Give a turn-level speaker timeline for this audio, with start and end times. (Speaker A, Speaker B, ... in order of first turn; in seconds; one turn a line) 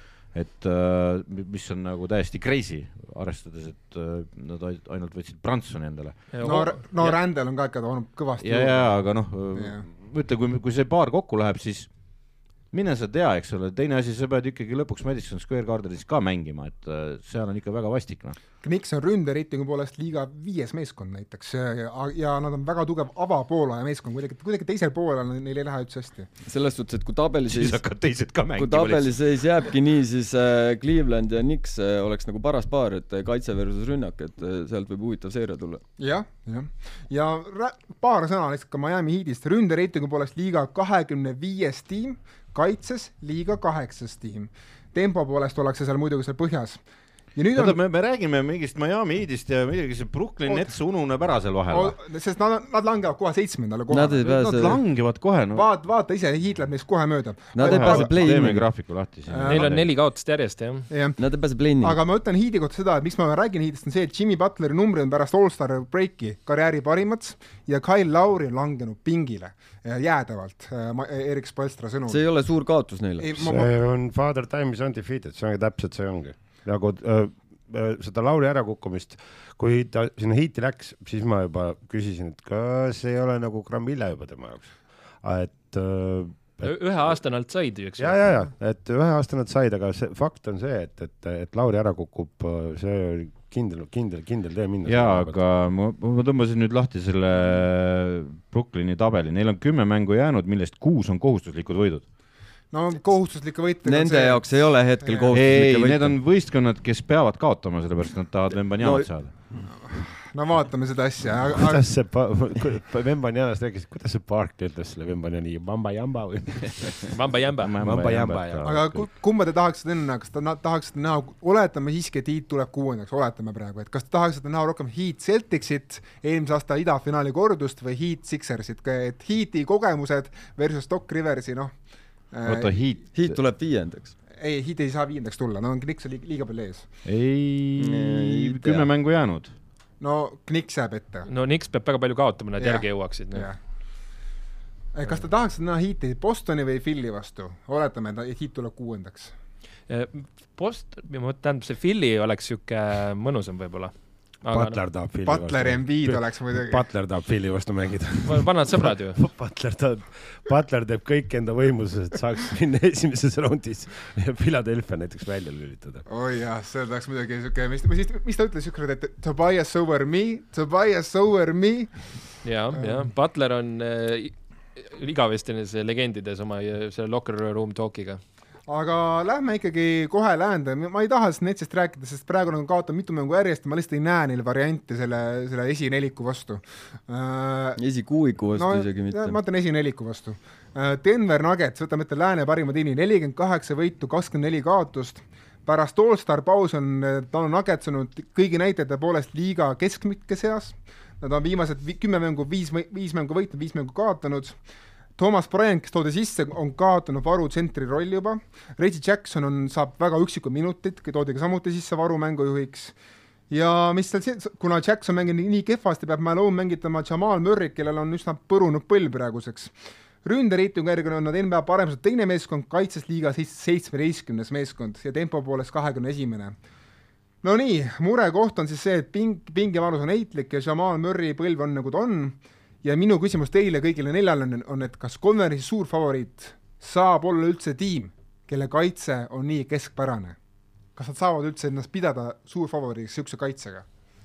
Speaker A: 0.3-6.3
Speaker B: 6.3-6.8
Speaker C: 6.4-9.8
Speaker A: 8.4-11.9
Speaker A: 12.7-18.4
Speaker C: 18.6-26.3
Speaker D: 26.4-27.8
Speaker A: 27.5-29.2
Speaker D: 28.5-35.8
Speaker C: 36.0-46.8
Speaker C: 47.3-47.8
Speaker A: 47.5-52.0
Speaker C: 50.5-50.7
Speaker C: 51.7-54.2
Speaker D: 53.9-54.8
Speaker A: 54.1-55.7
Speaker C: 55.5-58.7
Speaker D: 57.5-58.7
Speaker A: 57.6-59.9
Speaker C: 59.2-59.8
Speaker B: 59.5-60.9
Speaker C: 60.9-61.3
Speaker D: 61.2-62.0
Speaker C: 61.8-72.4
Speaker D: 72.1-73.5
Speaker C: 73.2-73.7
Speaker E: 73.4-87.2
Speaker B: 86.6-88.5
Speaker E: 88.0-95.4
Speaker A: 94.8-102.1
Speaker C: 102.7-105.4
Speaker D: 103.8-106.2
Speaker A: 105.3-109.3
Speaker D: 108.8-109.2
Speaker C: 109.6-111.9
Speaker E: 111.5-117.1
Speaker B: 117.1-117.7
Speaker A: 117.6-119.0
Speaker E: 117.8-119.0
Speaker C: 118.6-133.0
Speaker A: 132.4-133.4
Speaker D: 133.1-134.2
Speaker C: 134.3-136.9
Speaker A: 137.0-139.5
Speaker D: 137.8-138.9
Speaker C: 140.0-141.3
Speaker B: 141.2-143.5
Speaker C: 142.6-143.6
Speaker C: 144.9-149.3
Speaker B: 149.9-154.8
Speaker E: 154.5-166.1
Speaker C: 155.2-156.9
Speaker B: 158.2-159.2
Speaker C: 166.1-173.1
Speaker B: 172.4-178.2
Speaker C: 178.7-187.8
Speaker D: 187.8-189.4
Speaker C: 188.5-204.6
Speaker C: 205.2-212.9
Speaker C: 213.5-226.6
Speaker C: 227.4-240.4
Speaker C: 240.9-243.8